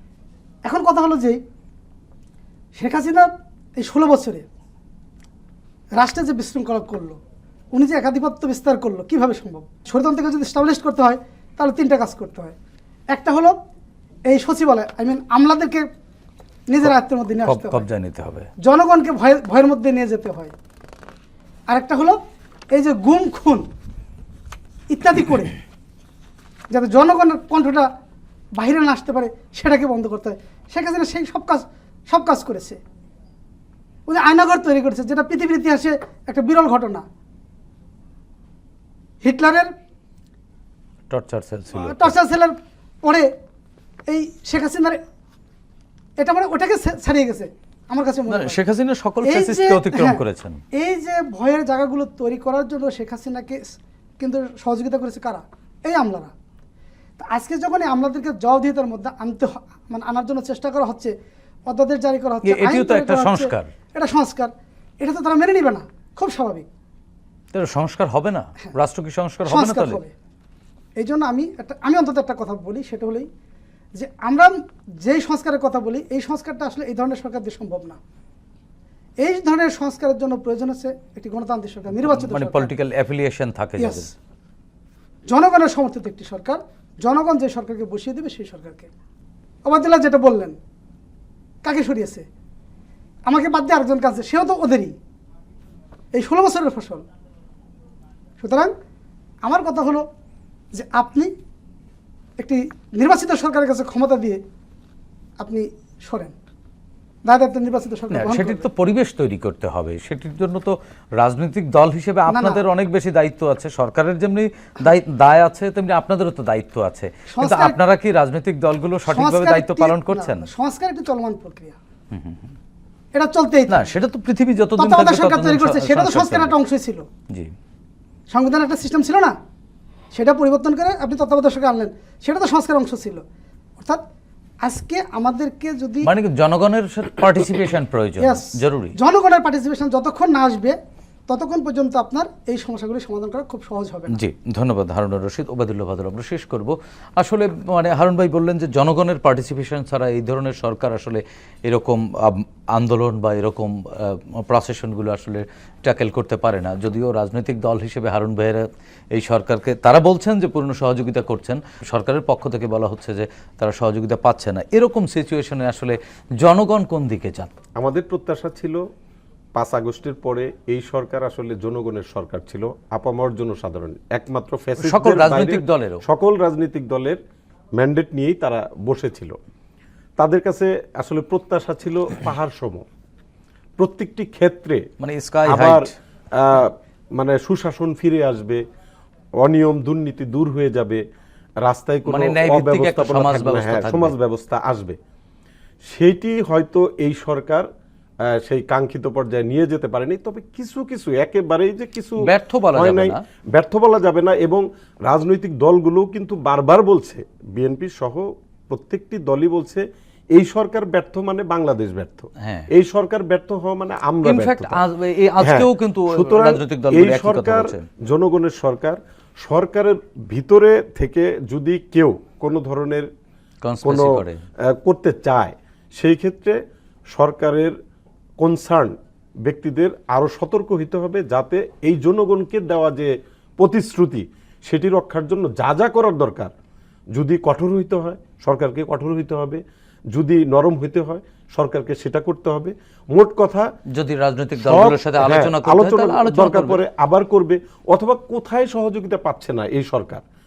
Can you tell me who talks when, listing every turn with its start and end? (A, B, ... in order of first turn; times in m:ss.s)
0:00.7-0:01.4 A
0:02.8-0:04.5 A
0:06.0-0:07.2 A
0:07.7-0:12.6 A
0:13.1-0:13.6 A
0:14.3-0:15.9 A
0:16.7-0:17.8 A
0:16.8-0:18.5 B
0:18.6-0:20.5 A
0:21.7-0:22.2 A
0:22.7-0:23.7 A
0:24.9-0:25.6 A
0:26.7-0:27.9 A
0:28.6-0:32.8 A
0:34.1-0:37.0 A
0:39.2-0:39.7 A
0:41.1-0:42.1 B
0:41.7-0:43.3 A
0:44.1-0:45.0 A
0:46.2-0:48.6 A
0:48.3-0:50.6 B
0:49.2-0:50.2 A
0:50.7-0:56.3 A
0:57.2-1:01.1 A
1:01.7-1:06.7 A
1:02.4-1:03.7 B
1:07.5-1:10.0 B
1:09.5-1:10.1 A
1:11.0-1:13.3 A
1:14.0-1:18.0 A
1:19.2-1:22.7 A
1:22.0-1:24.1 B
1:23.8-1:24.1 A
1:25.3-1:28.9 A
1:29.6-1:30.6 A
1:31.6-1:32.2 A
1:33.3-1:35.0 A
1:36.1-1:37.0 A
1:38.4-1:38.7 A
1:39.4-1:40.1 A
1:40.7-1:41.3 A
1:42.4-1:44.4 A
1:45.4-1:46.4 A
1:47.2-1:48.7 A
1:48.1-2:00.5 B
1:52.3-1:52.6 A
1:57.3-1:57.8 A
1:59.1-2:01.8 A
2:02.1-2:02.5 B
2:03.2-2:03.9 A
2:03.7-2:06.6 B
2:04.8-2:07.1 A
2:08.3-2:09.4 A
2:10.1-2:13.2 A
2:14.6-2:16.1 A
2:16.0-2:19.0 B
2:18.2-2:24.2 A
2:24.1-2:47.5 B
2:47.8-2:48.8 C
2:49.6-2:57.2 C
2:54.8-2:56.0 B
2:57.8-2:59.4 C
3:00.2-3:02.9 C
3:03.8-3:04.9 C
3:05.0-3:05.9 B
3:05.5-3:08.6 C
3:09.4-3:11.0 C
3:11.6-3:15.0 C
3:12.1-3:14.1 B
3:15.8-3:17.7 C
3:18.3-3:34.8 C
3:22.2-3:23.2 B
3:32.4-3:32.7 B
3:34.2-3:37.8 B
3:35.4-3:43.1 C
3:43.6-3:44.4 B
3:43.8-3:47.8 C
3:48.4-3:56.5 C
3:57.1-4:03.7 C
4:03.9-4:06.8 B
4:04.6-4:10.2 C